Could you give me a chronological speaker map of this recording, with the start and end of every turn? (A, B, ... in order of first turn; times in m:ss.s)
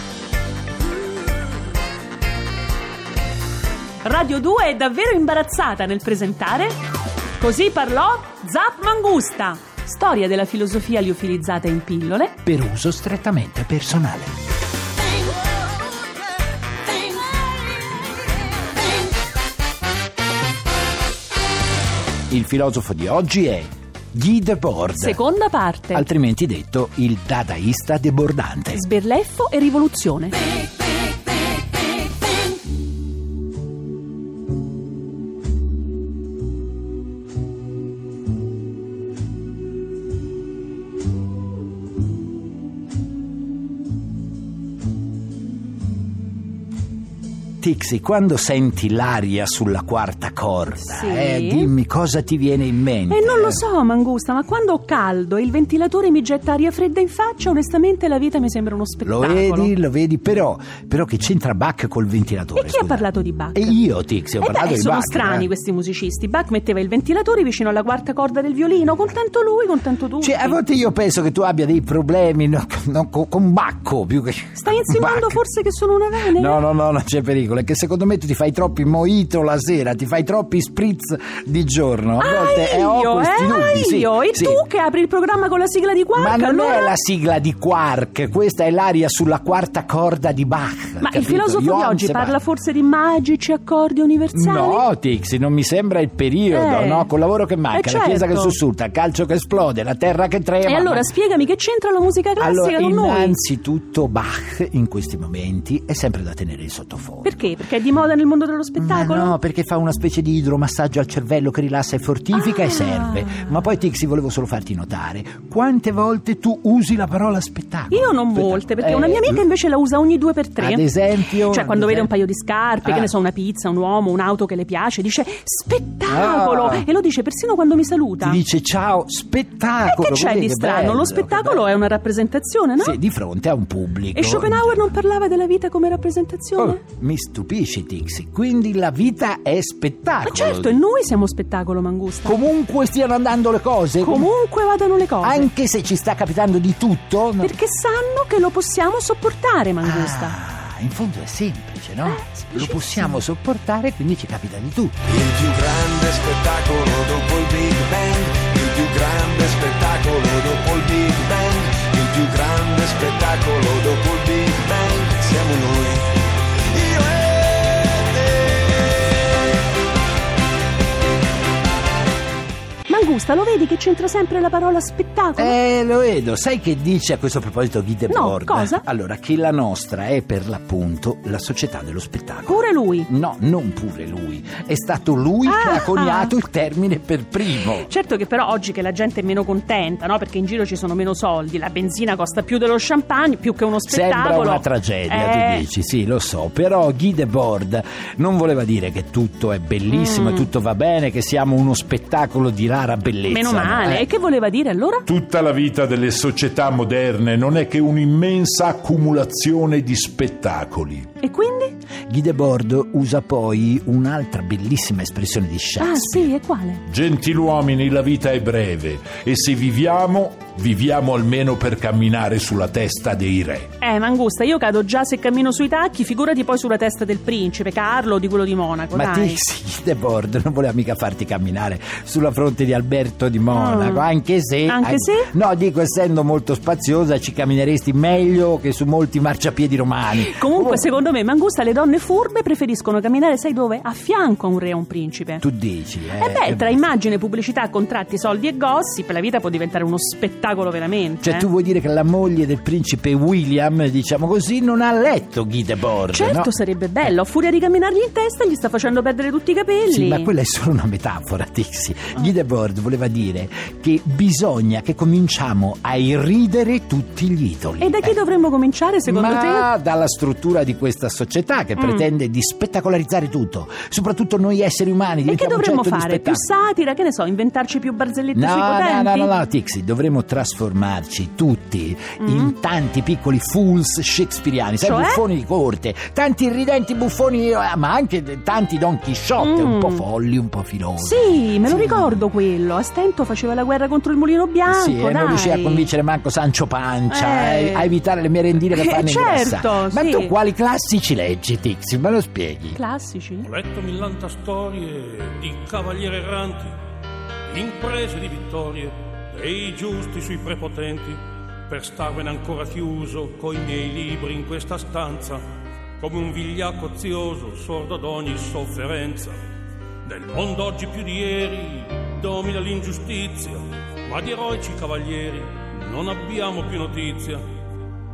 0:04.0-0:06.8 A
0:07.4-0:12.4 A
0:12.4-0:14.3 B
0:22.3-0:25.2 B
0:25.0-0:26.1 A
0:25.9-0:28.8 B
0:28.7-0:30.4 A
0:47.6-0:53.6 B
0:50.8-0:51.7 A
0:53.1-0:59.7 A
0:59.0-1:05.5 B
1:02.6-1:03.8 A
1:04.4-1:10.6 A
1:10.2-1:15.4 B
1:14.6-1:16.6 A
1:16.2-1:24.6 B
1:22.2-1:26.9 A
1:26.2-1:32.4 B
1:31.0-1:34.9 A
1:34.3-1:41.1 B
1:36.5-1:37.1 A
1:37.7-1:38.6 A
1:40.6-1:43.4 A
1:42.4-1:47.4 B
1:47.2-1:49.4 A
1:48.8-1:59.4 B
1:52.3-1:53.5 A
1:57.9-2:08.4 A
2:00.6-2:02.1 B
2:02.8-2:03.1 B
2:06.1-2:06.9 B
2:08.2-2:11.7 B
2:09.8-2:13.0 A
2:12.8-2:15.0 B
2:14.1-2:16.8 A
2:16.6-2:20.8 B
2:20.2-2:22.4 A
2:22.2-2:24.3 B
2:24.0-2:25.5 A
2:25.2-2:27.5 B
2:27.4-2:30.4 A
2:29.8-2:35.0 B
2:32.0-2:33.2 A
2:35.1-2:46.1 C
2:46.7-2:48.8 C
2:52.9-2:55.6 A
2:55.4-3:07.9 B
2:58.1-2:58.8 A
3:02.5-3:03.1 A
3:05.5-3:06.4 A
3:07.6-3:15.6 A
3:13.8-3:24.1 B
3:19.9-3:20.5 A
3:23.3-3:25.1 A
3:25.1-3:31.1 D
3:31.2-3:31.8 A
3:32.1-3:36.3 B
3:35.8-3:36.8 A
3:36.9-3:43.7 D
3:43.8-3:49.4 A
3:48.9-4:00.9 B
3:53.5-3:54.1 A
3:54.6-3:55.3 A
4:00.1-4:05.4 A
4:05.4-4:06.9 B
4:06.2-4:11.5 A
4:11.2-4:16.5 B
4:16.1-4:20.3 A
4:19.9-4:28.2 B
4:27.8-4:29.7 A
4:29.1-4:36.4 B
4:31.8-4:32.0 A
4:35.3-4:39.3 A
4:38.3-4:52.3 B
4:42.2-4:42.5 A
4:44.8-4:45.2 A
4:49.4-4:50.0 A
4:51.0-4:55.9 A
4:54.7-5:02.8 B
4:57.1-4:57.9 A
4:58.7-5:00.4 A
5:02.8-5:03.5 A
5:03.4-5:06.8 E
5:07.5-5:15.4 E
5:16.0-5:19.4 E
5:20.0-5:27.4 E